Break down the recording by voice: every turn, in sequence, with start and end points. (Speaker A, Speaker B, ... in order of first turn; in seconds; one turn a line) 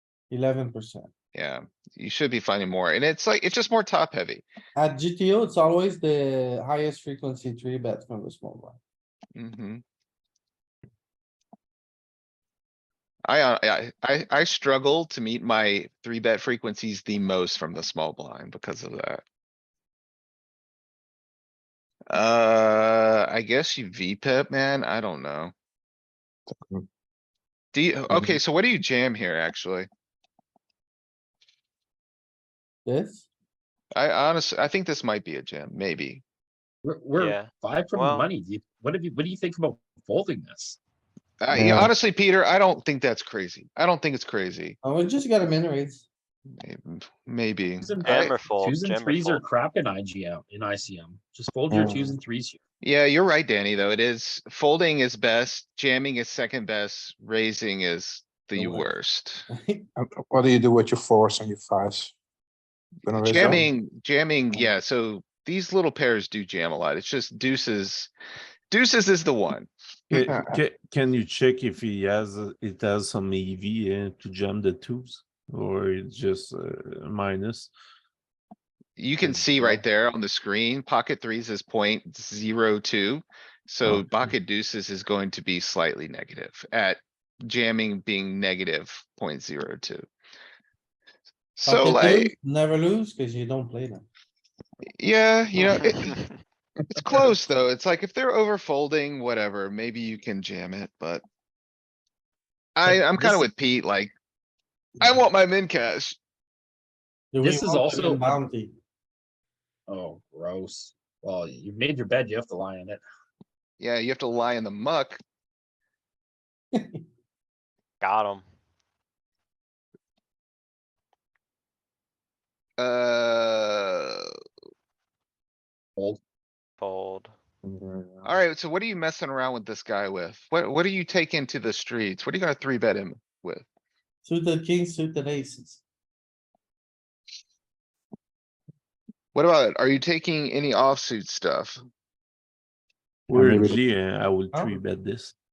Speaker A: 0.3-1.1
Speaker B: 1.3-4.5
Speaker A: 4.8-8.8
Speaker B: 9.3-9.8
Speaker B: 13.3-19.2
Speaker B: 22.1-25.5
Speaker C: 26.5-26.9
Speaker B: 27.7-29.9
Speaker C: 28.1-28.4
Speaker A: 32.9-33.3
Speaker B: 33.9-36.2
Speaker D: 36.8-40.8
Speaker E: 37.1-38.3
Speaker B: 41.4-44.8
Speaker C: 41.5-41.9
Speaker A: 44.8-46.1
Speaker B: 46.6-48.4
Speaker D: 47.8-52.6
Speaker E: 48.0-49.4
Speaker C: 51.7-52.2
Speaker B: 52.8-59.5
Speaker C: 58.6-58.8
Speaker A: 59.5-59.9
Speaker C: 60.0-62.1
Speaker C: 63.0-63.7
Speaker B: 63.2-68.1
Speaker B: 68.7-69.7
Speaker C: 70.1-70.6
Speaker F: 70.1-77.7
Speaker B: 79.0-90.1
Speaker F: 79.2-79.8
Speaker F: 83.8-84.3
Speaker B: 91.6-92.3
Speaker A: 91.6-94.1
Speaker B: 95.0-96.2
Speaker E: 95.7-96.3
Speaker B: 97.0-101.2
Speaker B: 102.8-104.1
Speaker B: 105.0-106.2
Speaker A: 107.3-108.7
Speaker D: 107.4-108.4
Speaker D: 109.9-113.0
Speaker B: 113.8-115.2
Speaker A: 116.7-117.0
Speaker E: 118.0-118.5
Speaker B: 122.8-124.3
Speaker E: 126.8-127.3
Speaker C: 127.6-128.4
Speaker B: 128.2-133.7
Speaker A: 134.2-135.8
Speaker B: 139.3-141.8
Speaker F: 143.3-145.3
Speaker C: 143.3-143.8
Speaker A: 144.5-144.8